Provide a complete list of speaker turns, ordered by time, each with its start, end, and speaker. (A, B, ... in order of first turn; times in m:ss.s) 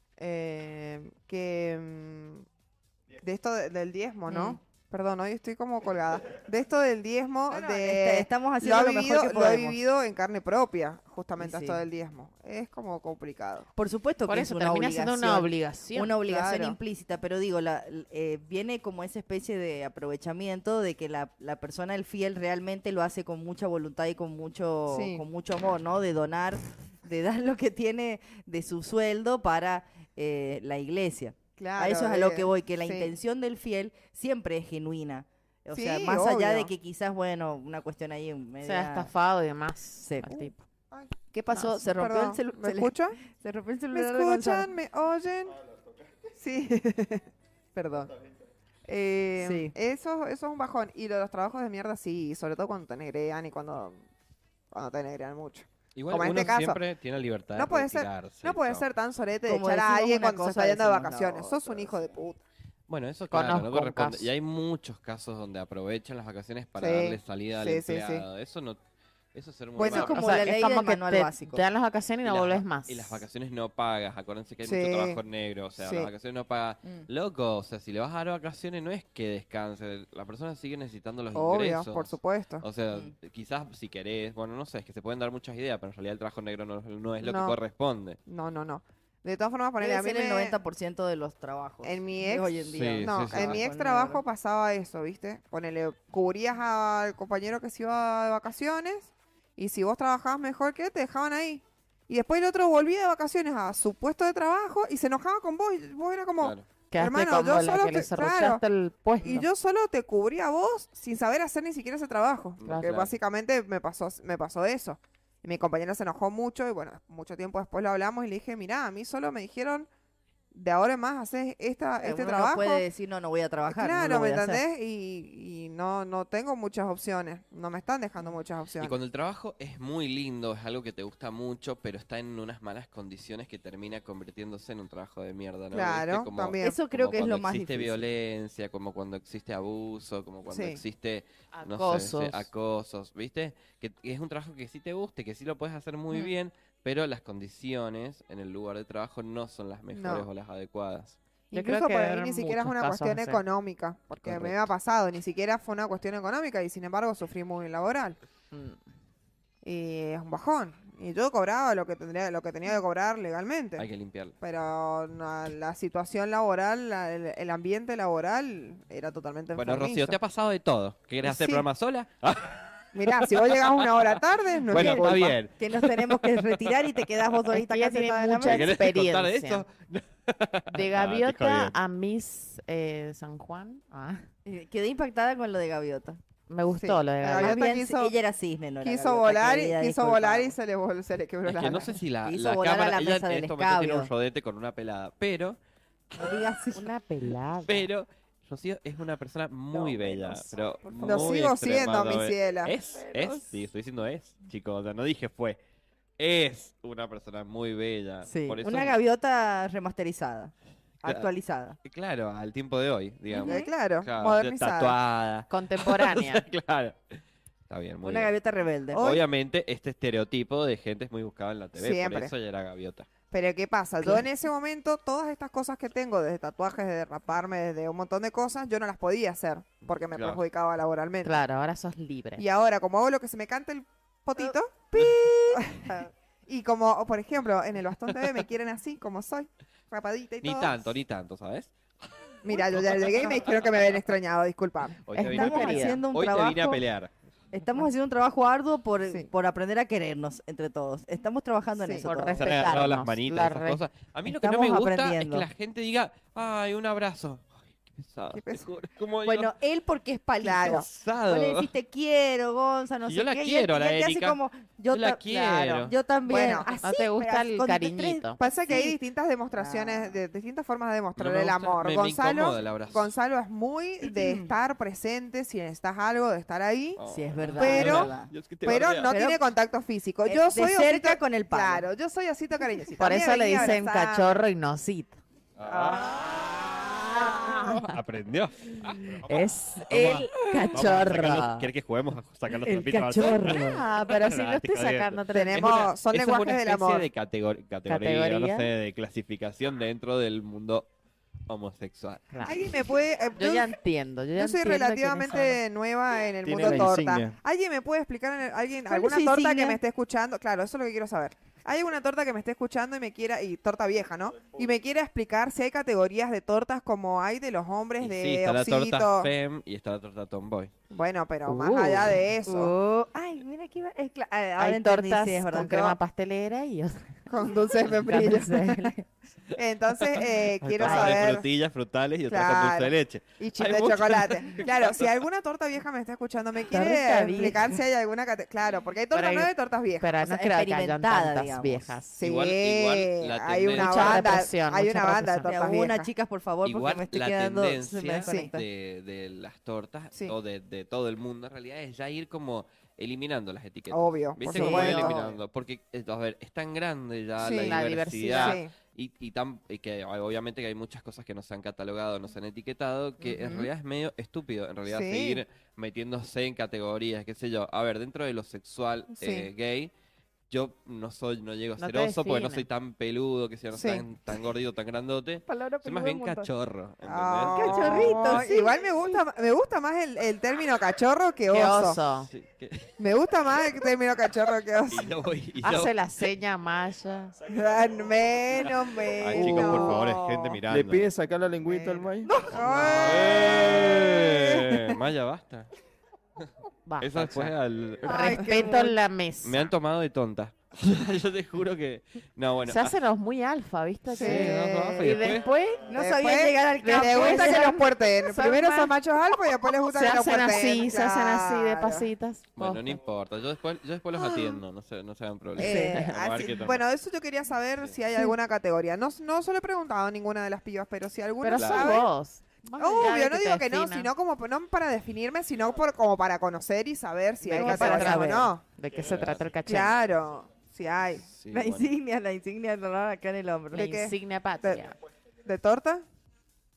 0:00.2-0:02.4 A
0:03.2-0:13.7 A
0:04.3-0:04.6 B
0:07.5-0:09.8 B
0:11.4-0:11.8 B
0:13.8-0:39.1 B
0:14.3-0:16.1 C
0:16.2-0:16.8 A
0:24.9-0:25.2 A
0:31.6-0:33.1 A
0:35.7-0:36.7 A
0:38.6-0:40.5 C
0:40.0-0:40.5 B
0:40.9-0:43.2 A
0:41.3-0:44.7 B
0:43.9-0:45.6 A
0:46.4-0:48.1 A
0:48.9-0:54.0 A
0:49.4-0:49.7 B
0:54.7-0:56.8 A
0:56.0-0:58.8 D
0:57.5-1:02.4 A
0:59.4-1:02.0 B
1:02.9-1:08.8 D
1:03.3-1:04.3 C
1:06.8-1:08.2 A
1:09.3-1:10.4 D
1:09.8-1:10.1 A
1:09.8-1:11.6 B
1:09.9-1:13.2 C
1:12.2-1:28.2 D
1:14.6-1:15.2 A
1:15.8-1:16.1 A
1:21.3-1:22.6 A
1:27.2-1:27.6 A
1:28.2-1:30.6 A
1:29.8-1:34.2 B
1:31.8-1:48.6 A
1:32.6-1:33.6 D
1:46.4-1:46.7 D
1:46.9-1:49.5 C
1:49.2-1:59.9 A
1:52.6-1:53.1 D
2:00.5-2:02.8 A
2:02.0-2:04.6 B
2:03.7-2:09.0 A
2:08.8-2:31.2 D
2:15.7-2:16.8 A
2:16.6-2:18.0 B
2:20.5-2:20.8 A
2:21.5-2:22.5 C
2:29.9-2:30.3 A
2:31.5-2:38.2 A
2:31.5-2:33.4 C
2:34.2-2:34.7 D
2:38.5-2:38.8 C
2:39.6-2:43.9 A
2:43.8-2:44.4 D
2:44.4-2:50.2 A
2:49.5-2:54.1 D
2:51.2-2:51.6 A
2:52.9-2:55.4 A
2:54.7-2:56.7 D
2:54.7-2:58.7 B
2:57.5-2:59.6 C
2:58.4-3:01.7 D
3:00.7-3:04.3 C
3:04.4-3:06.2 B
3:06.5-3:07.7 C
3:06.7-3:08.1 A
3:07.3-3:10.6 B
3:08.8-3:12.0 A
3:11.4-3:15.6 D
3:12.2-3:14.1 B
3:16.1-3:16.8 B
3:16.7-3:17.9 C
3:17.6-3:25.6 D
3:21.0-3:22.7 A
3:22.9-3:23.5 B
3:26.2-3:29.0 D
3:28.2-3:31.8 B
3:31.0-3:31.3 D
3:31.8-3:37.1 D
3:33.3-3:33.7 B
3:33.4-3:35.0 A
3:35.5-3:36.4 C
3:37.7-3:38.4 D
3:38.0-3:39.2 B
3:38.9-3:43.1 D
3:41.8-3:42.3 A
3:43.2-3:51.4 A
3:50.1-3:50.4 D
3:51.2-3:52.4 C
3:52.4-4:00.9 A
3:55.5-3:56.0 B
4:00.4-4:01.7 D
4:02.4-4:05.0 A
4:02.5-4:03.6 D
4:05.0-4:07.1 D
4:05.1-4:06.8 B
4:05.2-4:06.0 C
4:07.5-4:12.8 B
4:11.8-4:12.1 A
4:12.0-4:13.8 C
4:12.3-4:19.5 D
4:14.2-4:15.5 B
4:18.3-4:18.6 A
4:19.2-4:29.0 B
4:20.4-4:20.8 A
4:20.6-4:21.7 D
4:23.0-4:26.0 D
4:26.2-4:26.7 A
4:26.3-4:28.4 C
4:28.4-4:37.0 A
4:29.6-4:30.2 B
4:31.2-4:33.1 D
4:34.0-4:34.5 B
4:37.0-4:39.2 D
4:37.1-4:38.3 B
4:37.6-4:44.4 A
4:39.1-4:39.4 B
4:40.2-4:41.9 B
4:43.0-4:45.2 C
4:45.6-5:00.9 D
4:45.6-4:46.2 B
4:47.4-4:47.8 C
4:49.3-4:51.7 C
4:50.8-4:51.2 B
4:52.7-4:55.8 C
4:52.9-4:53.7 B
4:55.3-4:57.1 A
4:57.9-4:58.7 C
5:01.5-5:02.3 D
5:02.3-5:05.6 C
5:02.4-5:03.7 A
5:04.4-5:19.3 A
5:06.4-5:07.4 E
5:08.9-5:09.8 B
5:18.0-5:20.7 D
5:20.9-5:22.7 A
5:21.4-5:22.2 C
5:22.4-5:25.9 B
5:24.6-5:27.3 C
5:27.3-5:28.8 A
5:27.9-5:29.0 C
5:28.1-5:28.4 B
5:29.6-5:31.5 A
5:30.1-5:35.1 D
5:30.8-5:31.1 C
5:32.3-5:40.1 A
5:36.7-5:37.8 C
5:39.1-5:42.1 C
5:40.2-5:42.0 B
5:42.2-5:46.1 A
5:42.2-5:44.4 D
5:43.7-5:45.5 C
5:45.4-5:48.6 B
5:46.6-6:09.9 D
5:48.2-5:48.5 A
5:53.9-5:55.2 A
5:54.4-5:55.3 B
5:57.4-5:57.8 A
5:57.6-5:58.6 C
5:58.4-5:58.7 A
6:03.3-6:03.6 B
6:04.8-6:05.4 A
6:09.2-6:09.5 A
6:10.5-6:18.4 D
6:11.8-6:12.7 C
6:13.7-6:14.0 A
6:15.4-6:16.5 B
6:17.0-6:22.0 A
6:17.4-6:19.0 B
6:21.5-6:22.3 C
6:22.2-6:22.9 D
6:23.0-6:25.1 A
6:24.9-6:25.9 D
6:25.6-6:27.4 C
6:27.5-6:30.6 A
6:28.6-6:31.1 D
6:30.7-6:32.4 E
6:32.2-6:33.2 B
6:32.5-6:34.8 A
6:32.6-6:35.7 D
6:36.8-6:37.5 C
6:37.0-6:38.5 D
6:38.0-6:39.7 C
6:38.0-6:38.9 B
6:39.4-6:43.0 D
6:42.6-6:46.0 C
6:44.1-6:45.4 A
6:44.1-6:45.4 D
6:45.9-6:47.9 B
6:45.9-6:52.1 A
6:46.8-6:48.9 C
6:49.9-6:53.0 C
6:52.5-6:56.8 D
6:54.1-6:54.6 A
6:55.6-7:02.0 A
6:55.6-6:56.0 B
6:55.6-6:56.0 C
7:01.4-7:04.1 C
7:01.5-7:02.0 D
7:02.8-7:08.6 A
7:07.4-7:09.9 C
7:07.5-7:08.4 B
7:09.0-7:09.5 D
7:09.6-7:11.3 A
7:11.2-7:11.9 D
7:11.5-7:13.9 B
7:13.7-7:15.0 C
7:13.7-7:14.8 A
7:15.4-7:16.0 A